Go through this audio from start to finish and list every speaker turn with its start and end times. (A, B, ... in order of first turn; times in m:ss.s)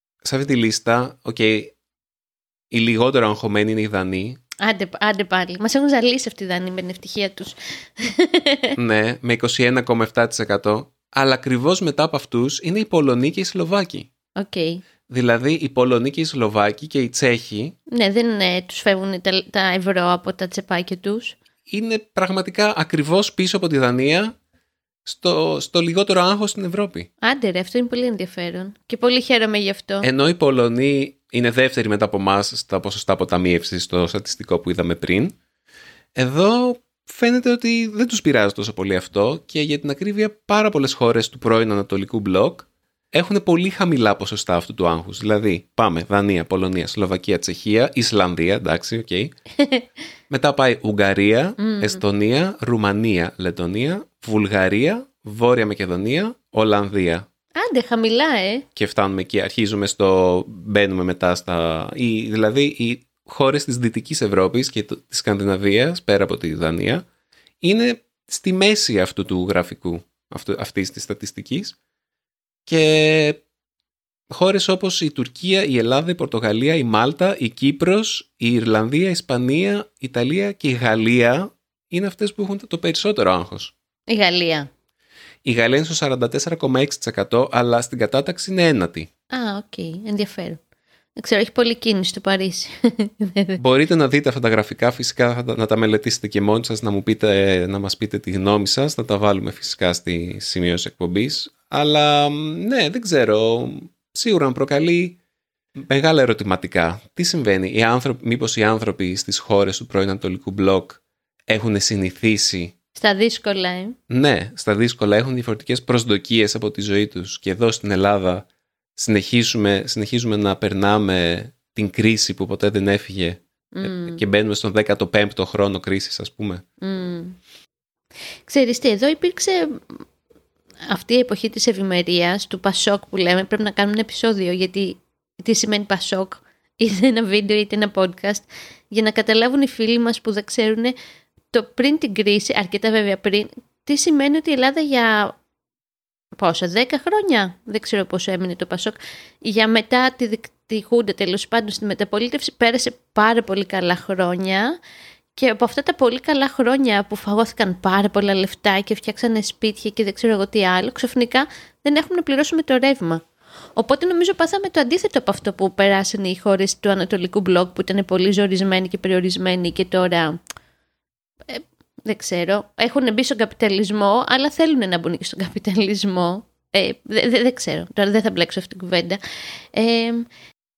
0:00.2-0:01.7 A
0:02.7-0:04.4 A
0:04.6-0:08.8 B
0:08.8-0:14.1 A
0:14.4-0:14.8 B
0:15.1-0:17.8 A
0:17.9-0:21.4 B
0:21.7-0:24.3 A
0:25.0-0:27.1 A
0:27.2-0:30.1 B
0:30.0-0:35.4 A
0:36.1-0:49.3 A
0:49.6-0:49.9 B
0:50.3-0:57.2 A
0:51.6-0:52.0 B
0:57.5-0:58.6 B
0:58.8-1:07.0 A
1:07.6-1:11.8 A
1:12.7-1:13.4 A
1:14.3-1:23.7 A
1:24.1-1:24.7 B
1:25.4-1:29.1 A
1:29.3-1:30.6 B
1:31.2-1:33.6 B
1:33.6-1:45.2 A
1:45.8-1:52.7 A
1:52.9-1:54.0 B
1:54.1-2:06.6 A
2:03.7-2:04.2 B
2:06.8-2:07.4 B
2:08.4-2:10.0 B
2:10.9-2:20.9 B
2:21.5-2:25.4 B
2:26.4-2:34.8 B
2:35.4-2:43.2 B
2:43.8-2:50.4 B
2:51.5-2:59.2 B
2:59.7-3:00.3 B